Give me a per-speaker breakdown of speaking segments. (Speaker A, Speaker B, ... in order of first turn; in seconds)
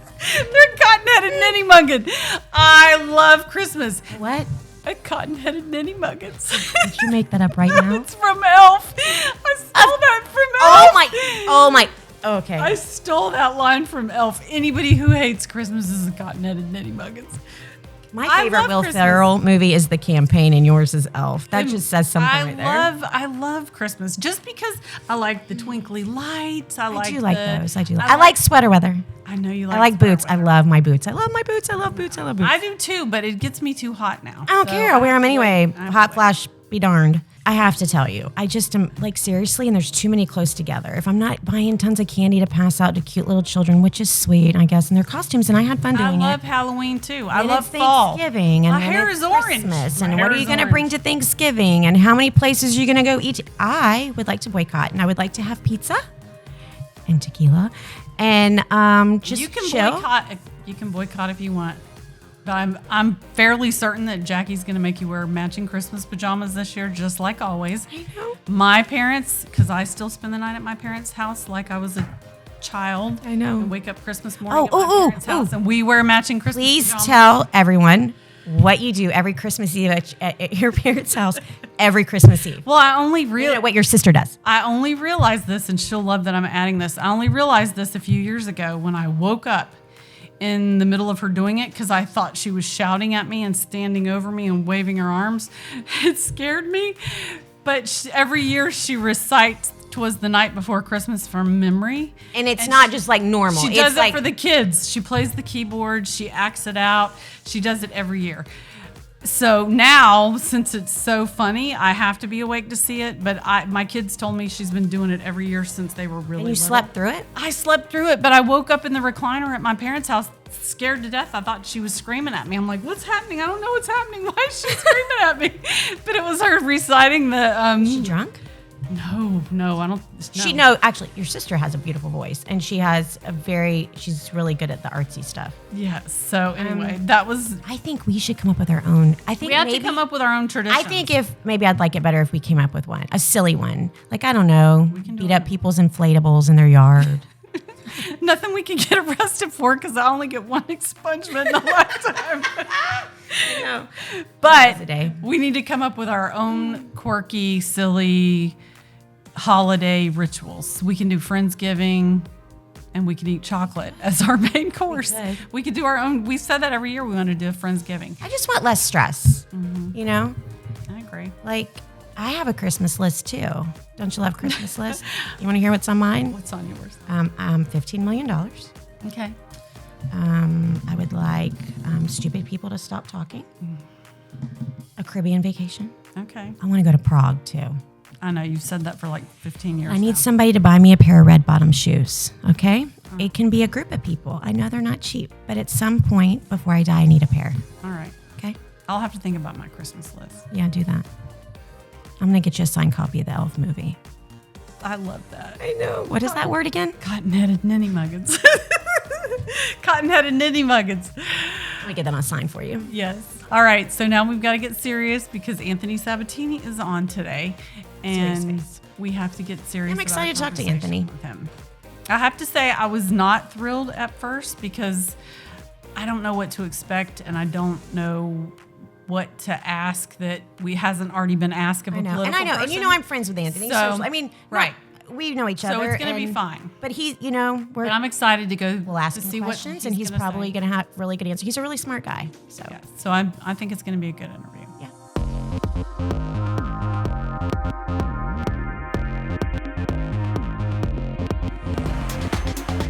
Speaker A: 0.2-4.1, 4.8-11.8, 12.6-17.4, 18.2-19.3, 21.5-28.4, 29.2-30.6, 32.2-36.2, 45.9-50.9, 59.2-61.8, 62.5-67.9, 68.5-72.1, 72.6-77.5, 82.6-83.7, 84.4-89.8, 90.4-102.9, 103.5-108.5, 109.2-128.2, 128.9-130.7, 135.7-137.6, 139.4-141.1, 144.9-145.5, 147.6-158.6, 159.3-162.3, 162.9-168.2, 169.5-170.0, 170.9-171.4, 174.4-175.1, 176.3-177.0, 179.0-179.4, 186.2-186.6, 188.2-190.3, 197.8-198.2, 198.9-200.5, 204.8-205.6, 206.2-211.9, 212.9-221.5, 222.1-225.2, 226.0-234.7, 235.6-236.8, 237.8-240.6, 242.7-244.8
Speaker B: 4.1-4.5, 6.7-8.1, 10.6-12.8, 18.1-22.9, 26.9-29.0, 29.7-32.6, 34.5-46.4, 47.3-56.0, 57.1-60.1, 67.9-68.4, 73.2-73.7, 74.5-75.5, 76.5-82.7, 83.4-84.4, 102.3-104.2, 116.4-117.3, 127.8-128.4, 130.4-135.6, 136.6-137.0, 137.6-140.0, 140.7-147.2, 152.8-153.9, 154.4-155.2, 164.9-165.4, 168.2-170.4, 171.4-176.4, 177.1-178.7, 180.1-183.5, 185.0-185.9, 186.6-187.8, 189.9-197.6, 200.5-201.1, 202.2-204.0, 205.6-207.0, 211.8-212.9, 218.1-218.7, 219.9-221.1, 231.9-238.0, 238.9-242.8